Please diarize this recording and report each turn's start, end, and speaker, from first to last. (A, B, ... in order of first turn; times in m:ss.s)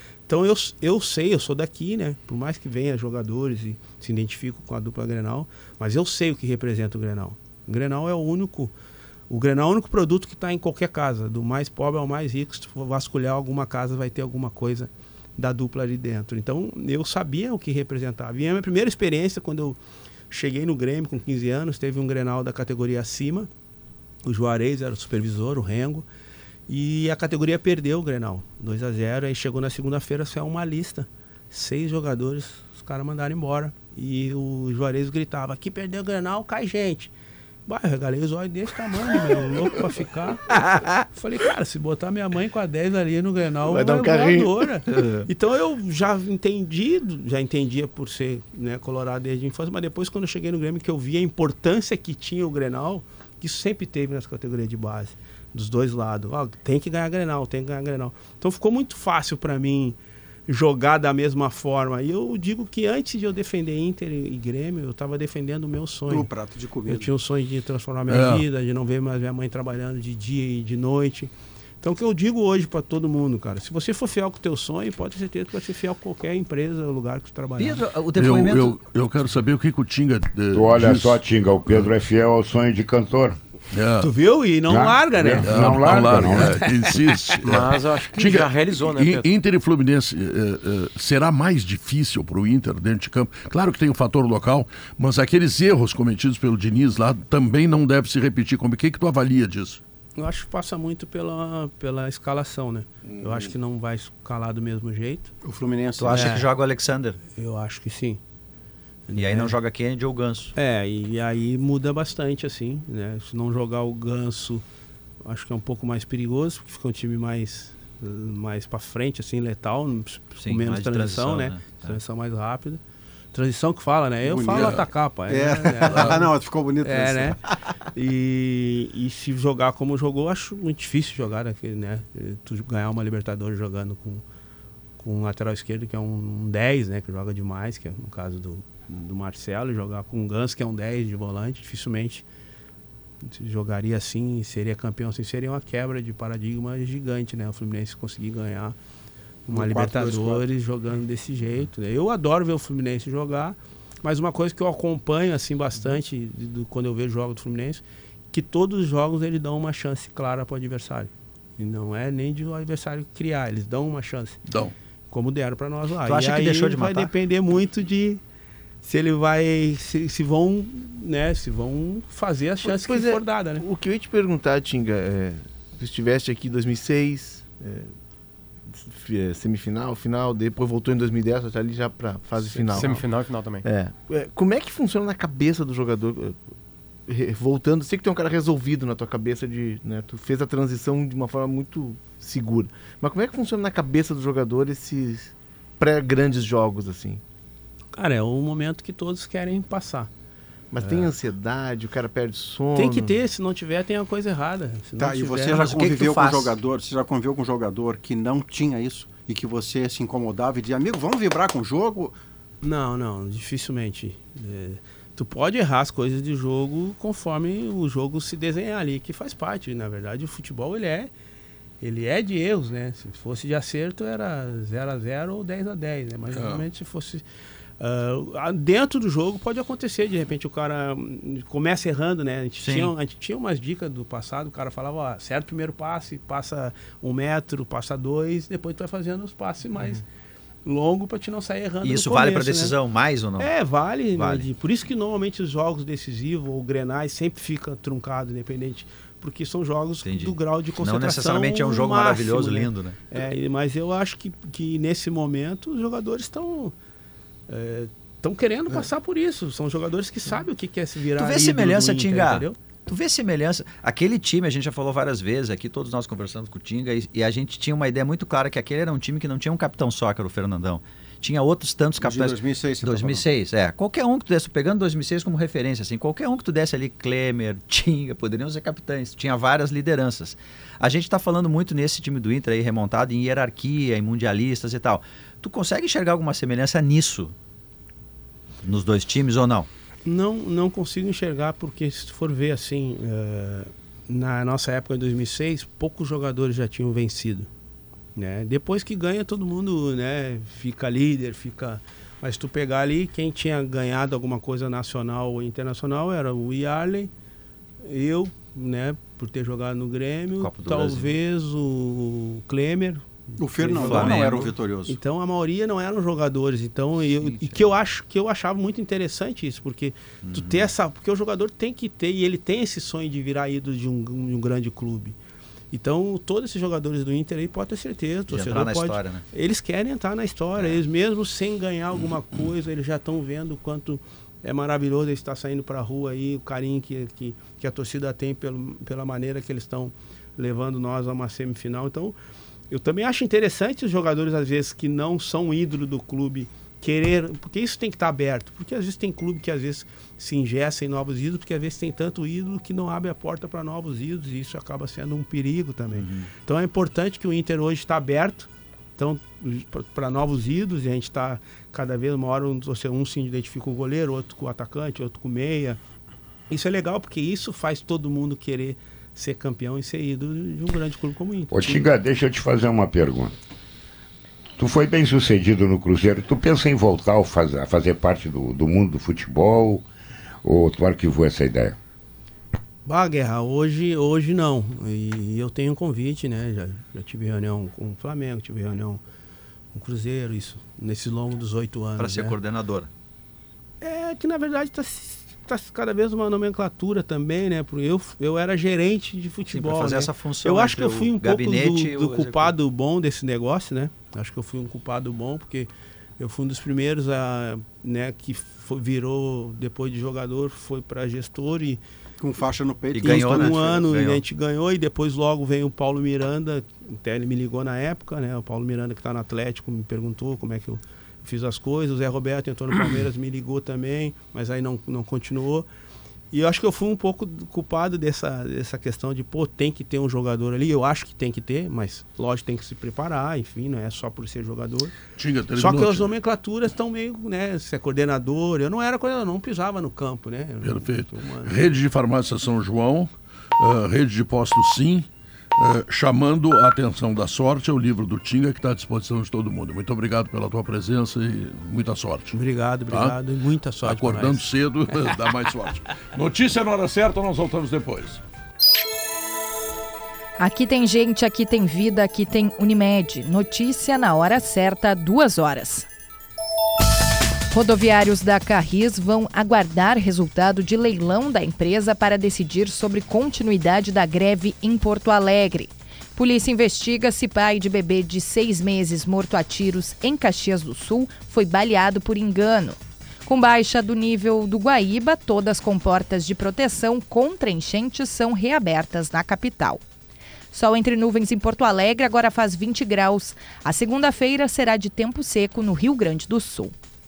0:00.3-0:08.7 A
0:09.3-0:19.8 A
0:20.3-0:23.5 A
0:24.2-0:26.0 A
0:26.7-0:37.1 A
0:37.7-1:06.3 A
0:43.6-0:45.3 B
1:06.1-1:07.1 C
1:06.9-1:17.8 A
1:08.1-1:08.5 D
1:17.6-1:18.8 E
1:18.2-1:21.9 D
1:20.5-1:23.4 F
1:23.7-1:24.1 D
1:24.0-1:26.9 A
1:24.7-1:26.8 F
1:25.4-1:39.8 D
1:27.4-1:29.3 G
1:40.2-1:45.3 A
1:43.1-1:43.5 D
1:45.4-1:46.4 C
1:46.0-1:47.2 E
1:46.1-1:46.5 A
1:47.3-1:48.2 A
1:49.1-1:49.6 A
1:49.2-1:50.5 E
1:50.6-1:54.6 A
1:55.2-2:02.8 A
2:00.4-2:02.0 E
2:03.3-2:06.3 A
2:04.2-2:07.4 C
2:04.5-2:04.9 D
2:05.8-2:06.3 D
2:06.8-2:07.4 A
2:08.0-2:14.2 A
2:15.0-2:22.2 A
2:23.2-2:28.8 A
2:29.5-2:44.4 A
2:29.5-2:30.4 C
2:44.5-2:44.7 D
2:45.1-2:48.2 A
2:46.0-2:47.1 E
2:48.8-2:53.6 A
2:52.6-2:57.9 B
2:58.7-3:03.0 B
3:02.6-3:03.0 A
3:02.7-3:03.6 G
3:03.6-3:06.4 B
3:07.1-3:17.2 B
3:18.0-3:20.1 A
3:20.7-3:23.2 B
3:20.8-3:21.1 A
3:22.8-3:25.7 A
3:25.0-3:32.2 C
3:25.5-3:26.6 E
3:32.6-3:41.1 A
3:41.8-3:47.2 A
3:46.3-3:46.6 D
3:47.8-4:00.0 A
3:52.6-3:52.9 E
4:00.6-4:02.8 A
4:01.8-4:03.5 E
4:03.4-4:16.7 A
4:04.1-4:04.5 E
4:10.0-4:13.0 E
4:17.5-4:22.6 A
4:21.2-4:47.3 E
4:32.0-4:33.2 C
4:48.6-4:49.7 E
4:50.1-4:57.5 A
4:58.2-5:07.1 A
5:07.8-5:25.2 A
5:10.4-5:11.2 E
5:13.4-5:15.0 C
5:13.8-5:14.5 E
5:17.1-5:17.7 E
5:20.2-5:20.7 E
5:25.7-5:42.2 A
5:28.3-5:29.2 E
5:30.6-5:30.8 E
5:42.7-6:05.8 A
5:56.0-5:56.3 E
6:06.5-6:11.8 A
6:11.5-6:13.4 F
6:14.6-6:19.8 F
6:20.4-6:21.8 F
6:22.9-6:29.0 A
6:29.7-6:32.4 A
6:32.0-6:32.9 E
6:33.8-6:51.8 A
6:39.5-6:42.6 E
6:52.2-6:53.7 C
6:52.9-6:54.2 E
6:53.0-7:05.7 A
7:06.3-7:15.0 A
7:15.2-7:16.1 D
7:15.5-7:21.7 A
7:20.6-7:32.4 D
7:32.3-7:34.5 A
7:32.9-7:33.2 D
7:33.8-7:38.2 D
7:40.4-7:45.9 H
7:47.5-8:09.8 H
8:10.5-8:16.7 H